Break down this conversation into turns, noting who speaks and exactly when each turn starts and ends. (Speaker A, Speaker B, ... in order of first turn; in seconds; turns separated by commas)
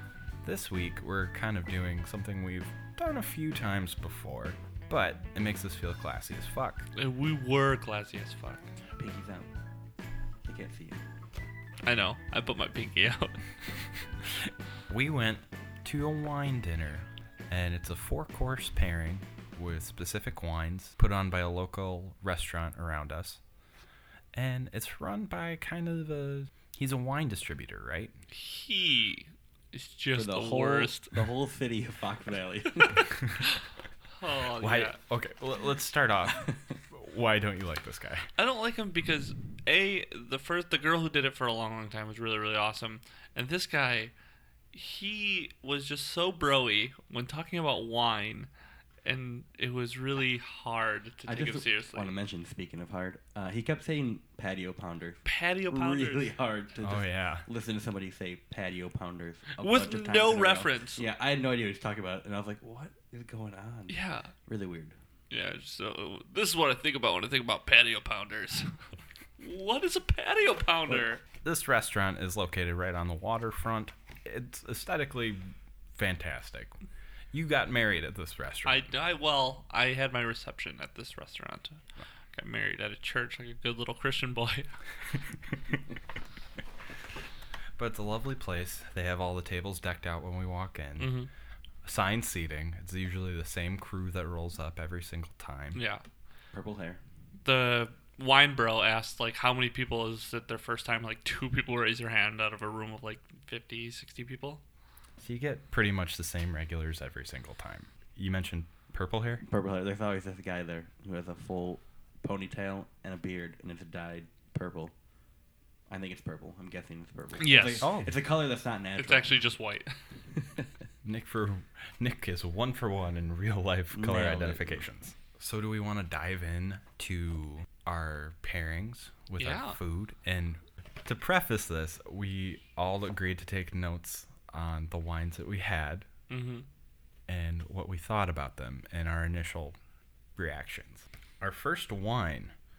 Speaker A: 0.4-6.9, Speaker B: 6.9-8.7, Speaker C: 9.0-9.5, Speaker C: 10.4-11.0, Speaker B: 11.8-13.4, Speaker A: 14.9-23.4, Speaker A: 24.3-28.1, Speaker B: 28.3-31.1, Speaker C: 30.1-33.2, Speaker B: 34.2-35.0, Speaker A: 34.6-38.3, Speaker B: 38.4-44.1, Speaker B: 44.7-48.5, Speaker B: 49.0-52.1, Speaker C: 51.3-64.9, Speaker B: 55.2-56.3, Speaker A: 56.8-57.5, Speaker B: 59.6-61.0, Speaker B: 63.9-64.3, Speaker B: 65.3-68.7, Speaker B: 69.4-71.2, Speaker A: 71.4-76.8, Speaker A: 77.3-78.9, Speaker B: 78.7-81.8, Speaker B: 82.3-84.7, Speaker A: 87.8-91.3, Speaker B: 91.0-91.3, Speaker A: 91.8-95.8, Speaker B: 95.7-96.0, Speaker C: 96.5-97.0, Speaker B: 97.4-104.6, Speaker A: 105.2-109.4, Speaker C: 109.4-114.9, Speaker C: 115.9-119.4, Speaker B: 117.4-117.9, Speaker A: 117.8-118.2, Speaker B: 119.0-120.0, Speaker C: 120.4-120.7, Speaker A: 121.0-136.1, Speaker C: 123.9-124.8, Speaker B: 129.4-129.8, Speaker B: 136.3-136.7, Speaker A: 137.3-139.8, Speaker A: 140.4-142.5